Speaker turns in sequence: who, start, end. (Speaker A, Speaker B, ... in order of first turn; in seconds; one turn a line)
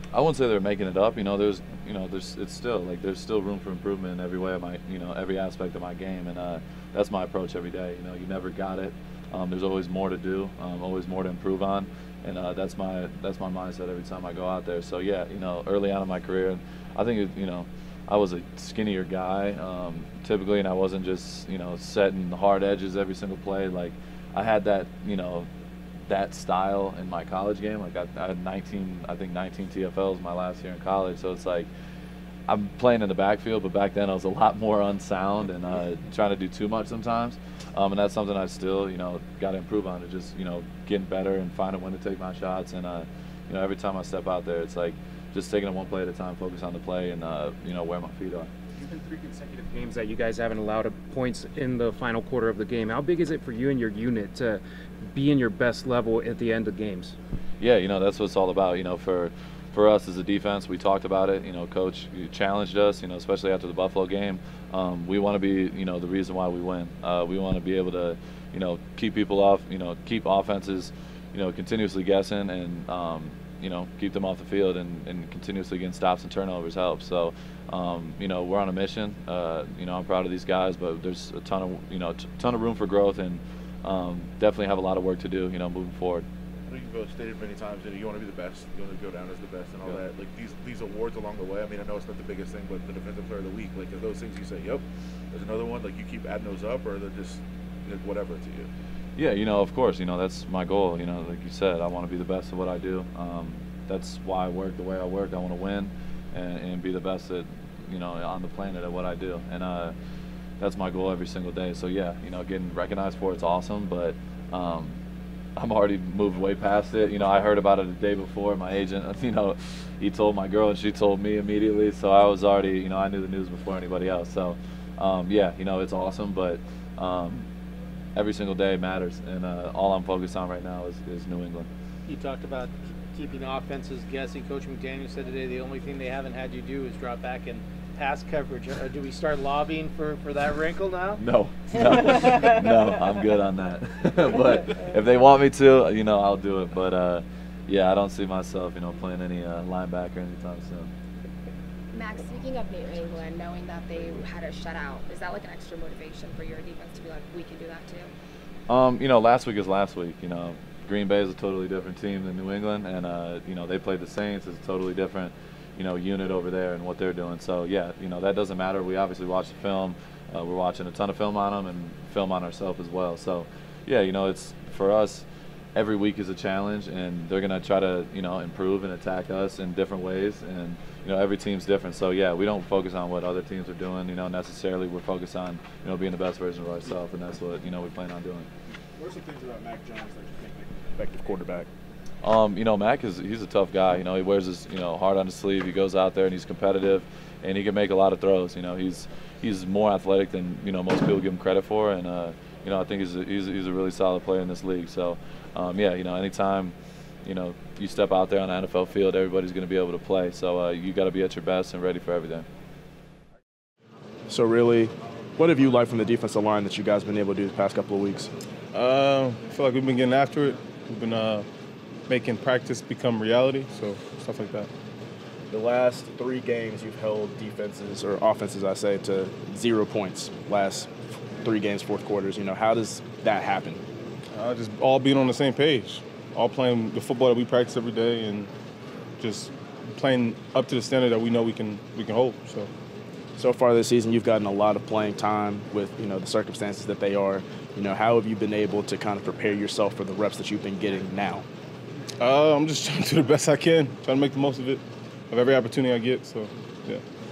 Speaker A: 0.1-25.5
Speaker A: 26.1-31.7
Speaker A: 32.5-48.5
Speaker B: 49.4-57.1
Speaker A: 57.6-86.2
Speaker C: 86.7-98.7
Speaker A: 99.2-110.0
Speaker A: 110.6-115.0
Speaker A: 115.6-127.5
Speaker A: 128.2-131.7
Speaker D: 132.1-141.2
Speaker A: 141.2-150.9
Speaker E: 151.9-158.1
Speaker A: 158.7-175.2
Speaker A: 175.8-188.5
Speaker F: 189.0-191.7
Speaker A: 192.2-206.7
Speaker A: 207.2-212.5
Speaker F: 214.3-218.3
Speaker G: 218.7-221.4
Speaker G: 222.1-224.7
Speaker F: 225.5-230.9
Speaker F: 231.4-233.8
Speaker G: 234.3-238.5
Speaker G: 239.2-242.7
Speaker F: 243.4-251.4
Speaker G: 252.2-257.0